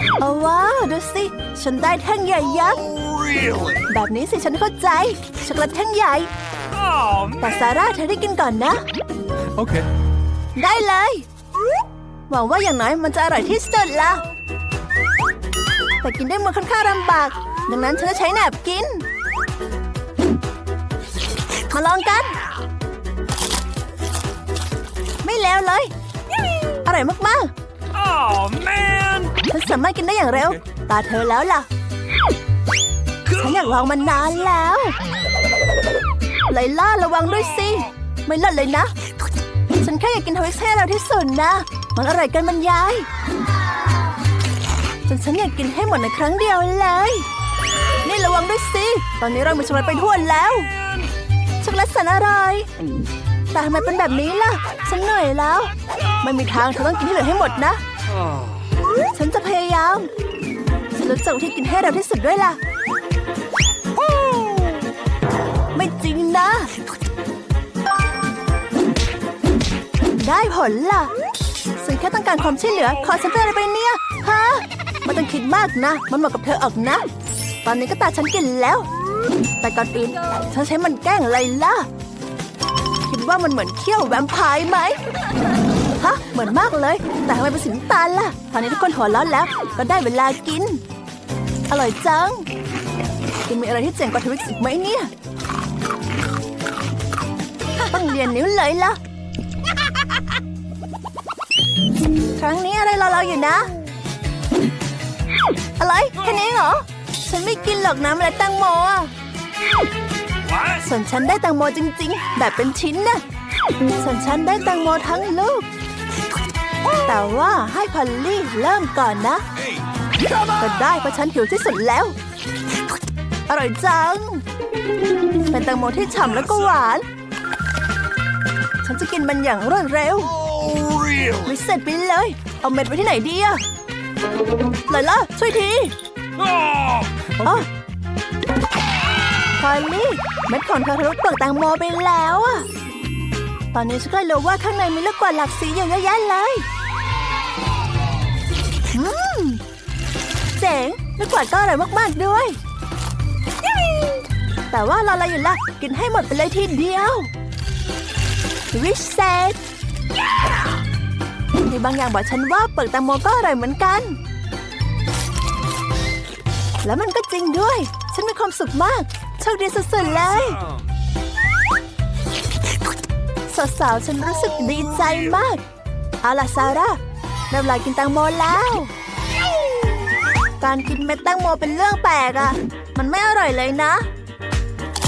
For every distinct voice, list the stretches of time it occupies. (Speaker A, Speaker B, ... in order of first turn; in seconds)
Speaker A: 0.2-2.8, 3.9-6.3, 7.4-8.8, 10.6-11.3, 12.3-14.2, 16.0-19.1, 21.7-22.4, 25.2-25.9, 26.9-27.5, 29.5-31.7, 33.3-35.0, 36.5-38.9, 39.8-43.1, 45.1-47.3, 48.0-50.7, 51.6-52.7, 53.5-57.8, 59.1-60.1, 61.0-62.6, 65.7-66.7, 70.2-71.1, 71.8-77.1, 77.6-78.9, 79.6-81.9, 83.1-85.0, 86.0-90.8, 91.7-92.5, 93.5-95.1, 97.9-99.0, 102.4-103.7, 105.8-109.1, 110.8-113.2, 114.0-115.7, 117.0-119.5, 120.6-122.2, 123.5-124.4, 125.5-127.0, 128.8-130.3, 131.5-133.6, 134.9-135.9, 139.6-142.7, 143.7-146.7, 148.9-149.6, 150.6-152.6, 154.7-157.3, 158.7-159.6, 161.7-164.2, 166.8-170.6, 173.5-175.6, 176.2-177.0, 177.5-178.9, 180.6-184.1
Speaker B: 2.9-3.8, 6.7-7.6, 9.6-9.9, 27.9-29.4, 58.2-58.5, 64.0-64.8, 110.5-110.8, 119.7-120.5, 130.4-131.5, 136.4-137.7, 170.3-170.8